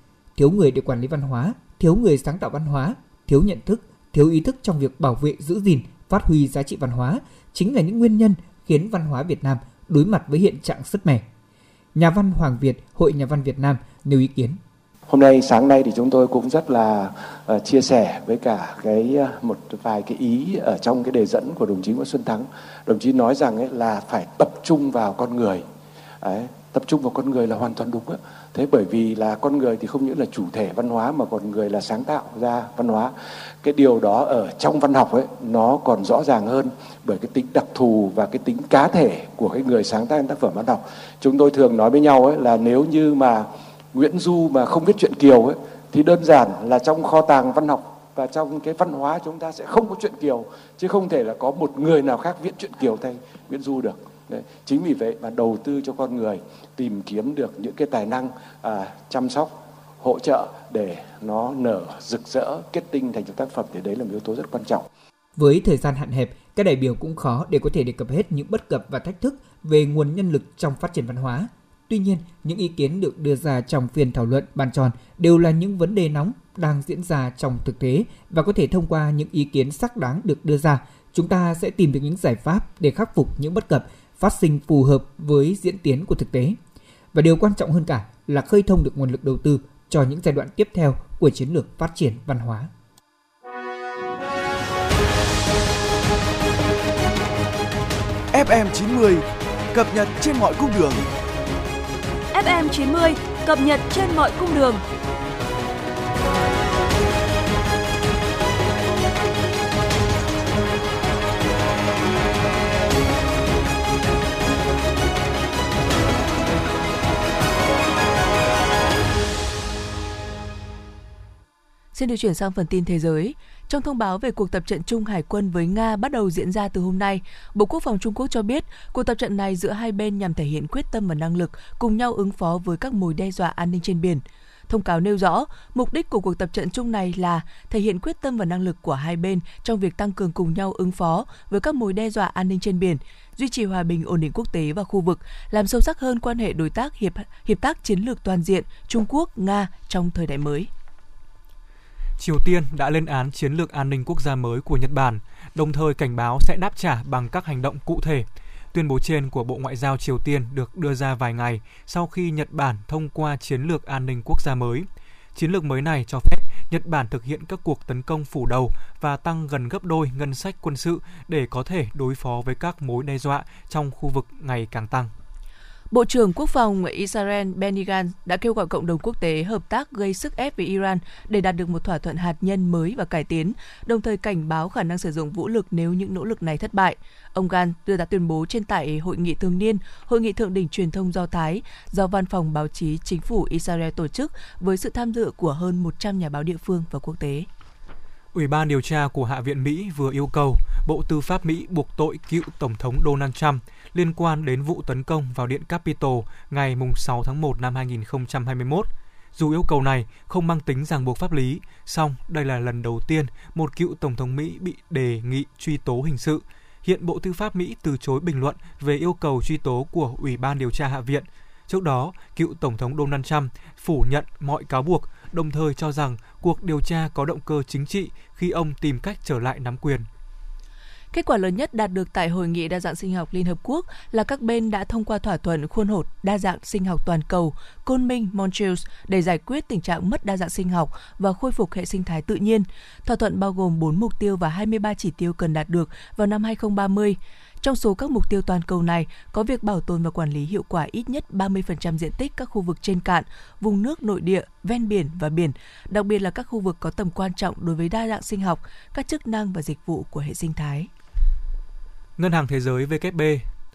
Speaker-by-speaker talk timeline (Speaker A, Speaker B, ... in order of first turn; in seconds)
Speaker A: 0.3-11.2, 11.9-14.6, 65.3-86.6, 87.1-92.7
Speaker B: 15.1-25.6, 26.2-64.9
Speaker C: 98.3-101.1
Speaker D: 102.3-104.8
Speaker E: 121.9-150.7, 175.9-197.5, 231.1-260.9
Speaker F: 152.2-175.1, 198.3-230.1, 262.2-263.5